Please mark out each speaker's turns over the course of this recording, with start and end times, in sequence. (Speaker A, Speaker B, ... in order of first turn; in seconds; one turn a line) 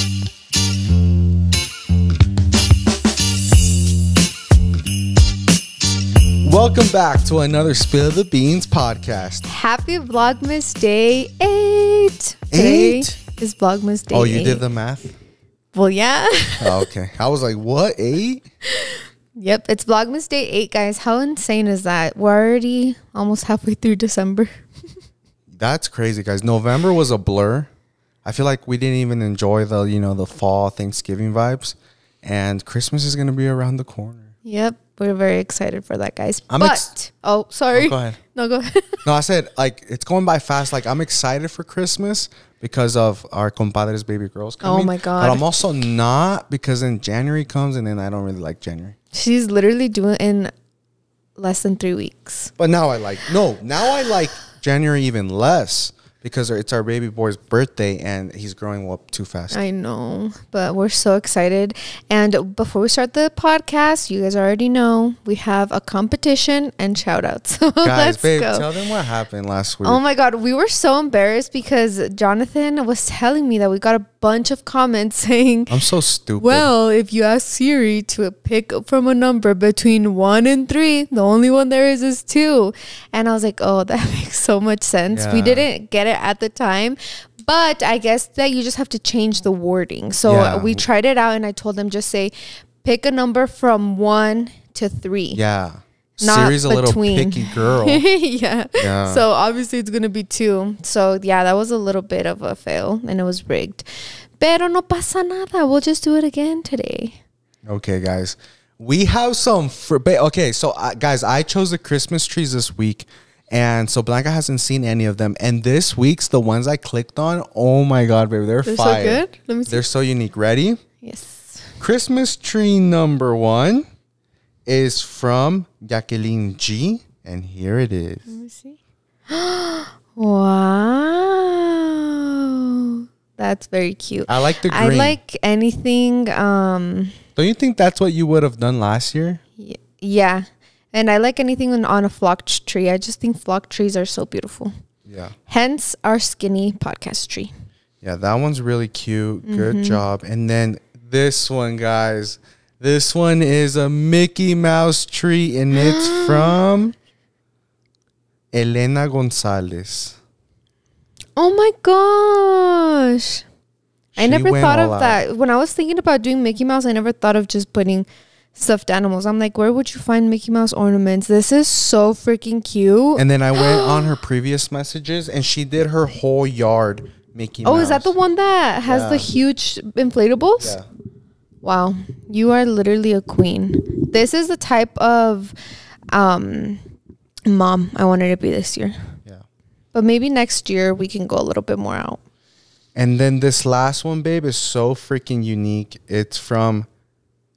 Speaker A: 6.4-9.4
Speaker B: 9.4-14.6
Speaker A: 12.5-13.2
Speaker A: 14.1-15.1
Speaker B: 15.7-16.8
Speaker A: 16.6-18.4
Speaker B: 18.7-24.5
Speaker A: 25.5-27.7
Speaker A: 28.2-34.3
Speaker B: 34.4-39.0
Speaker A: 36.5-36.9
Speaker A: 37.7-38.2
Speaker A: 39.0-49.0
Speaker B: 44.6-45.5
Speaker B: 49.1-50.5
Speaker B: 51.4-52.5
Speaker A: 52.6-59.6
Speaker B: 59.5-68.7
Speaker A: 67.8-70.0
Speaker B: 69.8-75.7
Speaker A: 75.7-76.7
Speaker B: 76.4-95.4
Speaker A: 85.1-85.7
Speaker A: 90.2-90.8
Speaker A: 95.3-98.0
Speaker B: 96.2-103.9
Speaker A: 98.8-99.2
Speaker B: 104.4-107.2
Speaker A: 107.7-120.8
Speaker B: 118.6-119.8
Speaker B: 121.0-121.7
Speaker A: 121.8-123.9
Speaker A: 124.7-128.3
Speaker B: 128.3-128.8
Speaker B: 129.3-137.2
Speaker A: 134.3-135.2
Speaker A: 137.3-139.4
Speaker B: 139.6-144.7
Speaker A: 145.1-145.3
Speaker B: 145.5-147.5
Speaker A: 148.0-156.9
Speaker B: 149.4-150.0
Speaker B: 155.7-156.6
Speaker A: 158.5-160.2
Speaker B: 161.4-163.4
Speaker A: 164.2-165.2
Speaker B: 164.2-174.1
Speaker A: 173.2-178.1
Speaker B: 177.6-180.8
Speaker A: 178.8-179.3
Speaker A: 180.6-180.8
Speaker B: 181.6-185.5
Speaker B: 186.1-186.8
Speaker B: 187.4-189.1
Speaker B: 189.9-192.2
Speaker A: 192.9-196.9